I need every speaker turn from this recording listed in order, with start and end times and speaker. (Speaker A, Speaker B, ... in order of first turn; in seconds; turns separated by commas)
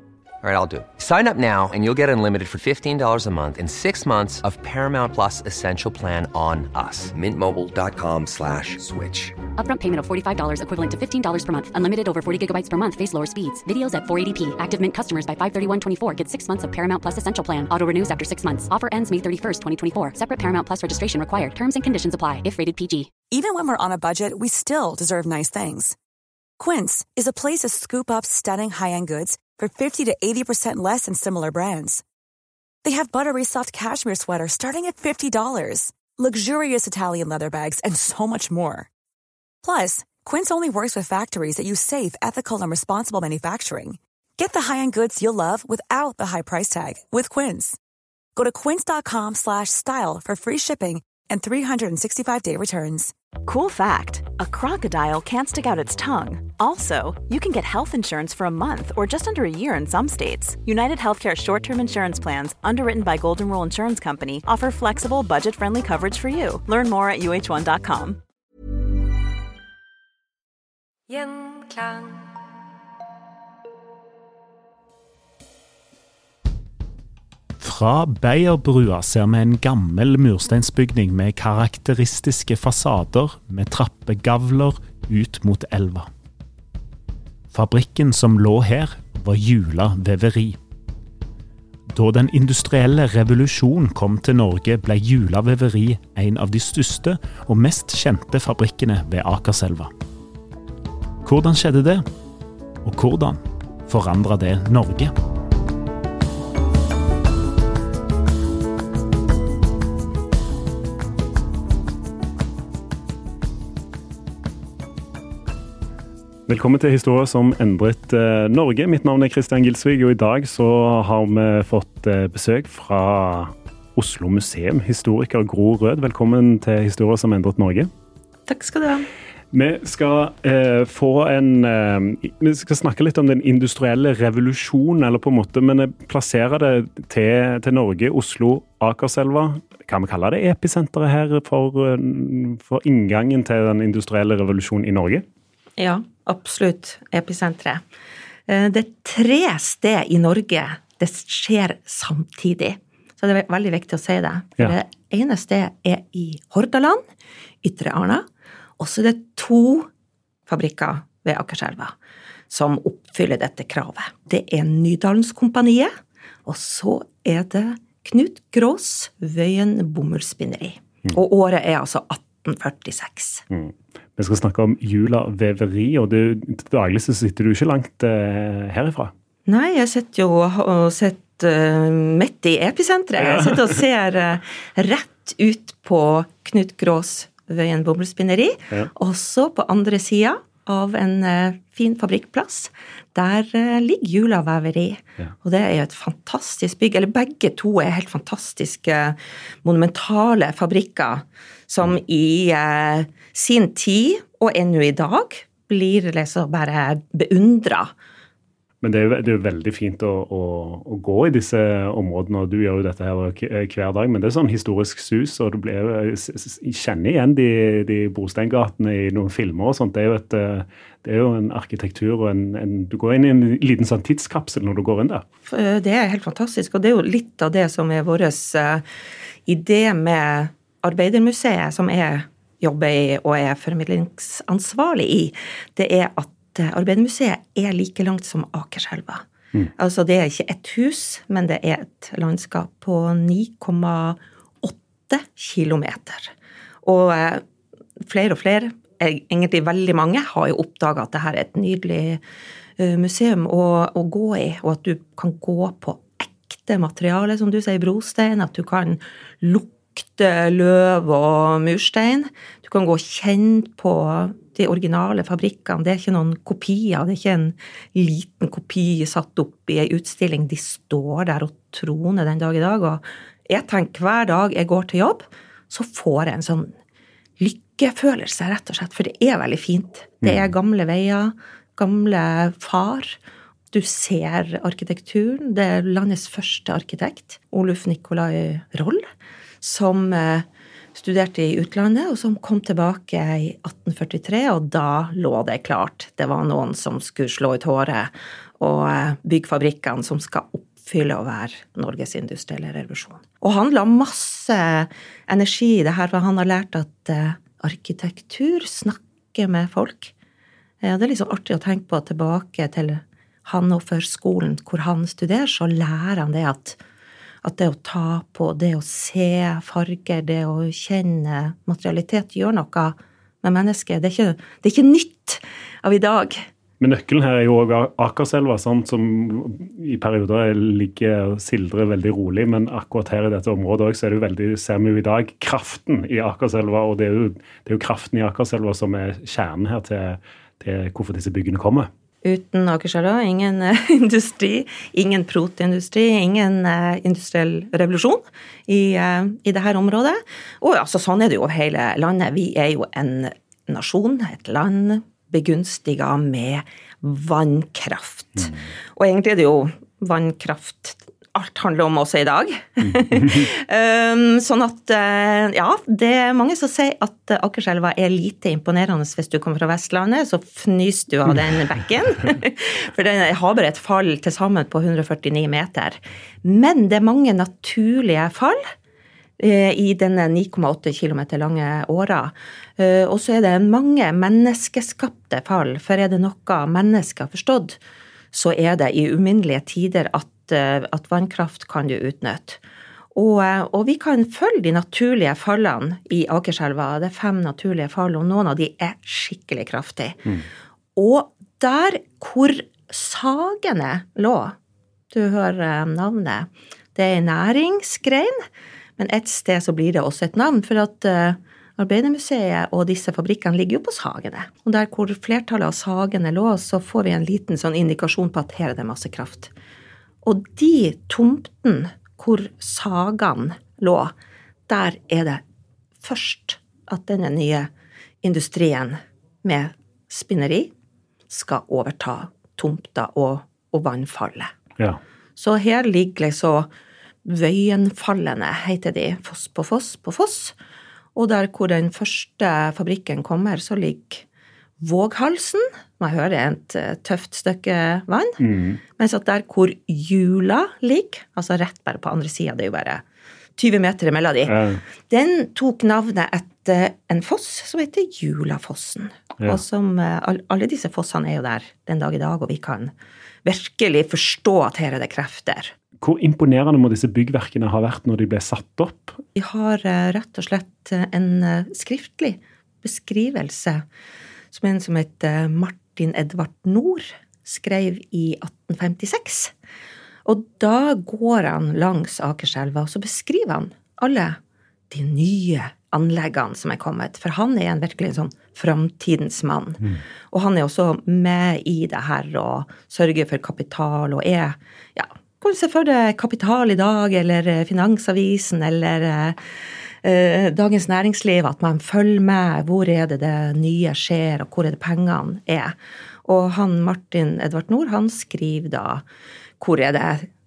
Speaker A: 0.4-9.4, Speaker B: 9.6-23.1, Speaker C: 23.3-26.0, Speaker C: 26.6-32.0, Speaker C: 32.8-38.9, Speaker C: 39.6-47.8, Speaker C: 48.4-53.1, Speaker D: 53.4-68.2, Speaker D: 71.5-71.8, Speaker E: 77.6-86.1, Speaker E: 87.5-90.6, Speaker E: 91.9-99.9, Speaker E: 101.2-102.1, Speaker E: 102.8-105.1, Speaker E: 116.5-127.9, Speaker F: 128.5-129.1, Speaker E: 129.5-145.2, Speaker F: 145.8-147.8, Speaker F: 148.5-157.0, Speaker F: 157.6-158.3, Speaker F: 158.8-159.9, Speaker F: 160.5-161.9, Speaker F: 162.5-165.9, Speaker F: 166.5-173.4, Speaker E: 173.5-179.1, Speaker F: 179.5-207.9, Speaker E: 183.2-183.7, Speaker E: 208.8-225.2, Speaker F: 225.5-228.8, Speaker F: 229.5-239.2, Speaker F: 239.8-246.3, Speaker F: 246.8-247.4, Speaker F: 248.0-252.2, Speaker F: 252.8-276.8, Speaker F: 277.4-283.2, Speaker E: 280.2-280.5, Speaker F: 283.7-289.1, Speaker F: 289.6-310.1, Speaker F: 310.8-316.8, Speaker F: 317.4-326.5, Speaker E: 326.8-341.9, Speaker F: 342.2-378.7, Speaker E: 362.9-363.5, Speaker F: 379.4-387.8, Speaker F: 388.3-392.6, Speaker F: 393.1-400.3, Speaker F: 401.0-404.6, Speaker F: 405.1-408.5, Speaker F: 409.0-419.5, Speaker F: 420.2-424.1, Speaker F: 424.7-425.4, Speaker F: 426.0-427.7, Speaker F: 428.2-430.7, Speaker F: 431.3-434.5, Speaker F: 435.4-436.7, Speaker F: 437.2-440.6, Speaker F: 441.1-444.2, Speaker F: 444.8-448.4, Speaker E: 448.4-448.8, Speaker F: 449.0-453.0, Speaker F: 453.6-462.9, Speaker E: 454.5-454.8, Speaker F: 463.4-465.7, Speaker E: 466.0-469.2, Speaker F: 469.4-473.9, Speaker F: 474.5-479.5, Speaker F: 480.2-484.4, Speaker F: 484.9-499.4, Speaker F: 500.0-509.0, Speaker F: 509.6-510.3